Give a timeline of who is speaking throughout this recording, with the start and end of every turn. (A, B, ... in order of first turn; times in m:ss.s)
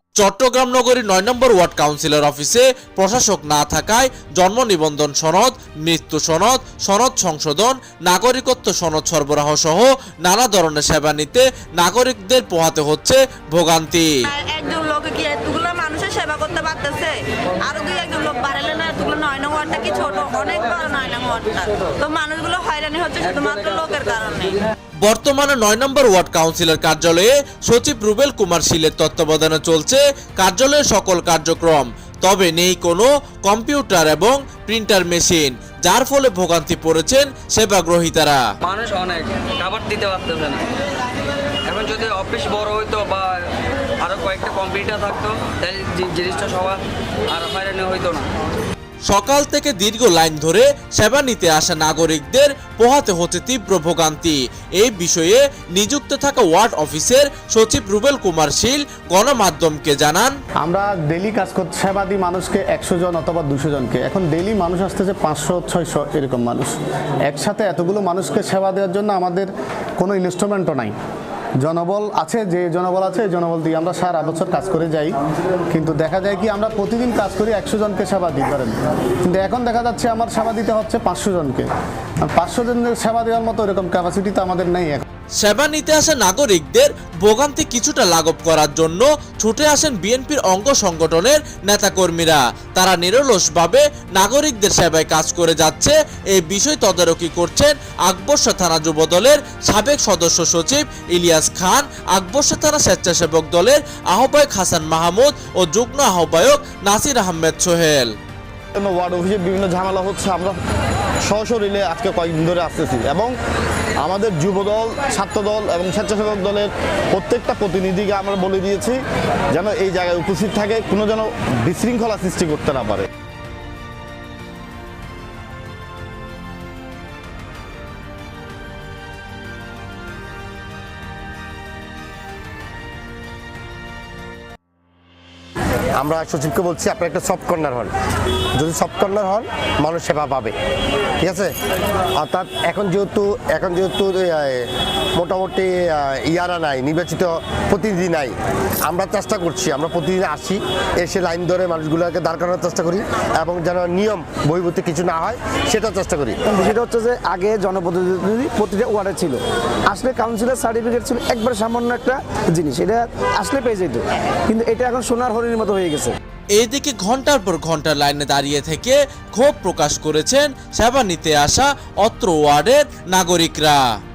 0:00.2-0:14.1 A
0:14.2-0:24.6 B
0:25.0-0:38.4 A
0:38.6-0:40.6 C
0:41.6-0:43.4 C
0:44.0-0:46.8 C
0:47.3-0:48.3 C
0:49.0-1:00.4 A
1:00.6-1:10.9 D
1:11.6-1:15.2 D
1:15.7-1:21.7 D
1:22.3-1:25.0 D
1:25.4-1:48.1 A
1:48.7-1:50.6 E
1:51.2-1:53.3 E
1:54.0-1:59.0 E
1:59.5-2:03.1 E
2:15.9-2:17.9 F
2:18.5-2:20.5 F
2:21.2-2:21.5 F
2:22.2-2:36.4 F
2:36.4-2:46.2 G
2:46.5-2:53.8 A